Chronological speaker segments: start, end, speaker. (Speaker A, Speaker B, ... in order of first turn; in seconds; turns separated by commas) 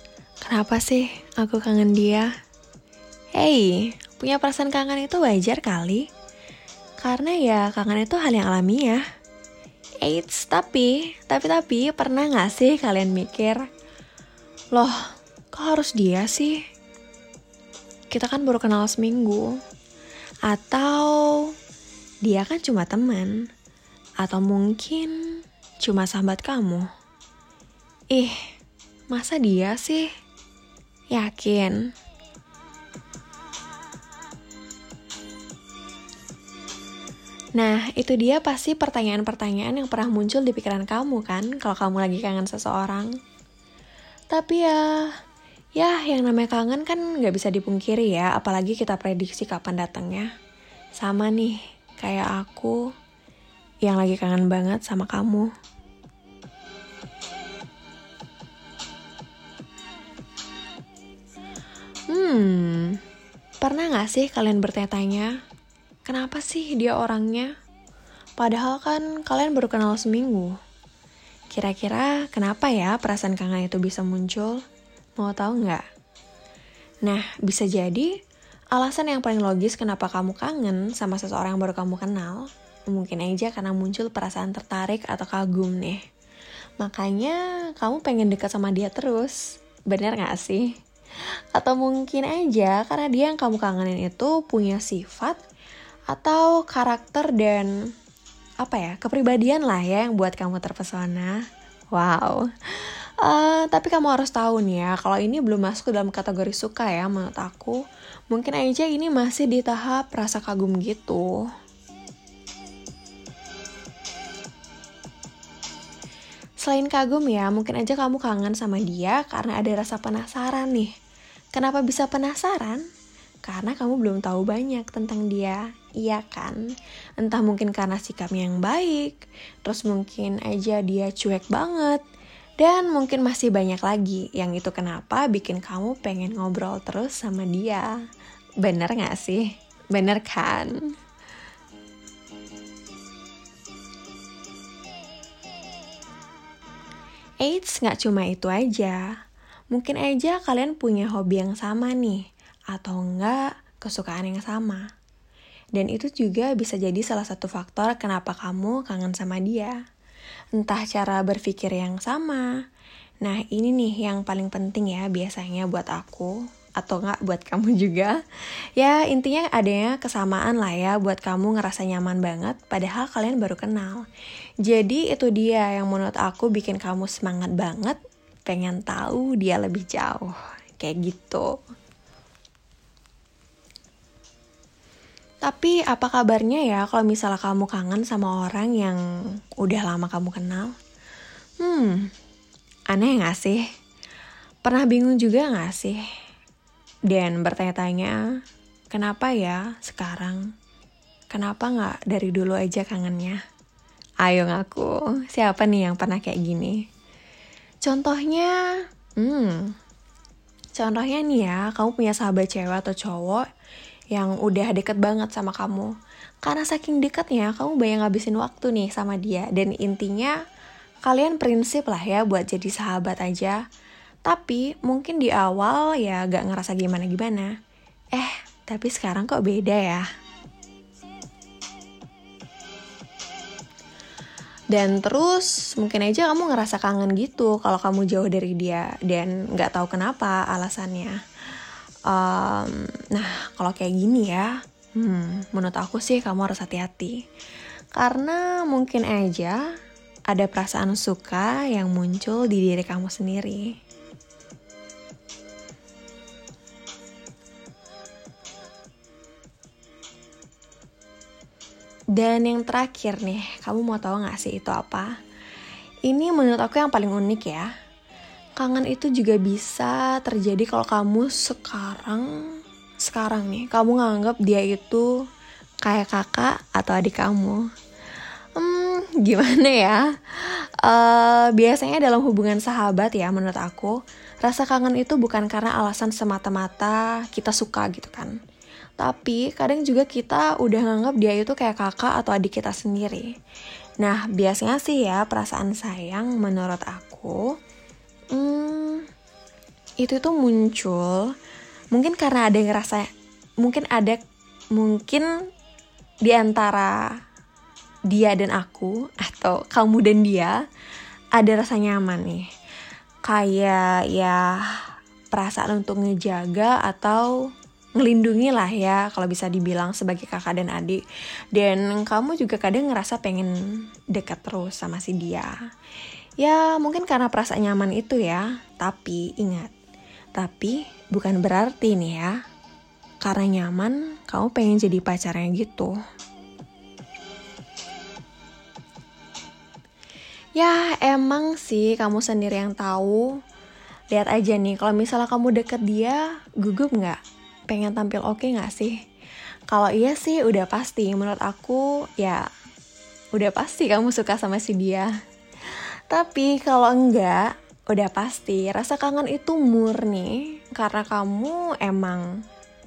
Speaker A: 0.4-2.3, Speaker A: 3.4-6.0, Speaker A: 7.0-9.0, Speaker A: 10.0-13.6, Speaker A: 14.7-15.0, Speaker A: 15.5-16.6, Speaker A: 18.1-19.5, Speaker A: 20.5-21.4, Speaker A: 22.2-23.3, Speaker A: 24.2-25.1, Speaker A: 25.8-26.9, Speaker A: 29.1-30.1, Speaker A: 31.1-31.8, Speaker A: 37.5-43.1, Speaker A: 44.3-45.1, Speaker A: 45.8-50.3, Speaker A: 51.0-52.8, Speaker A: 53.8-55.5, Speaker A: 62.1-63.0, Speaker A: 63.6-65.3, Speaker A: 66.0-67.5, Speaker A: 68.4-70.5, Speaker A: 71.5-74.6, Speaker A: 75.2-75.8, Speaker A: 77.0-78.1, Speaker A: 78.7-86.0, Speaker A: 86.8-89.4, Speaker A: 89.9-90.7, Speaker A: 91.5-95.4, Speaker A: 96.1-97.7, Speaker A: 98.6-101.3, Speaker A: 101.9-107.8, Speaker A: 108.3-111.4, Speaker A: 116.6-120.9, Speaker A: 121.5-122.8, Speaker A: 123.5-126.6, Speaker A: 127.2-132.0, Speaker A: 132.6-137.9, Speaker A: 138.6-140.7, Speaker A: 147.4-149.0, Speaker A: 149.7-154.8, Speaker A: 155.8-159.7, Speaker A: 160.6-162.4, Speaker A: 163.2-168.2, Speaker A: 168.8-174.0, Speaker A: 174.7-181.5, Speaker A: 185.4-189.0, Speaker A: 189.6-190.7, Speaker A: 191.6-192.1, Speaker A: 192.9-193.6, Speaker A: 194.6-196.0, Speaker A: 197.1-198.2, Speaker A: 198.9-200.4, Speaker A: 201.3-203.4, Speaker A: 204.2-206.8, Speaker A: 207.8-208.5, Speaker A: 209.2-209.7, Speaker A: 210.8-213.4, Speaker A: 214.1-215.9, Speaker A: 216.4-220.3, Speaker A: 221.1-223.6, Speaker A: 224.3-227.5, Speaker A: 228.1-230.1, Speaker A: 234.7-241.2, Speaker A: 242.1-247.2, Speaker A: 247.9-249.6, Speaker A: 250.3-253.7, Speaker A: 262.1-265.1, Speaker A: 266.1-267.7, Speaker A: 268.6-272.3, Speaker A: 273.0-275.1, Speaker A: 275.8-277.6, Speaker A: 278.6-288.3, Speaker A: 289.0-293.3, Speaker A: 294.0-297.4, Speaker A: 298.3-299.1, Speaker A: 300.0-301.3, Speaker A: 301.9-303.1, Speaker A: 303.6-304.2, Speaker A: 304.8-305.3, Speaker A: 306.2-306.9, Speaker A: 308.1-310.5, Speaker A: 311.4-312.4, Speaker A: 313.2-314.8, Speaker A: 315.3-317.3, Speaker A: 318.0-321.0, Speaker A: 321.5-323.5, Speaker A: 324.1-325.5, Speaker A: 326.4-329.7, Speaker A: 330.4-332.3, Speaker A: 333.2-335.9, Speaker A: 340.6-343.2, Speaker A: 344.1-347.2, Speaker A: 347.7-348.9, Speaker A: 349.7-352.4, Speaker A: 353.4-355.1, Speaker A: 356.1-362.2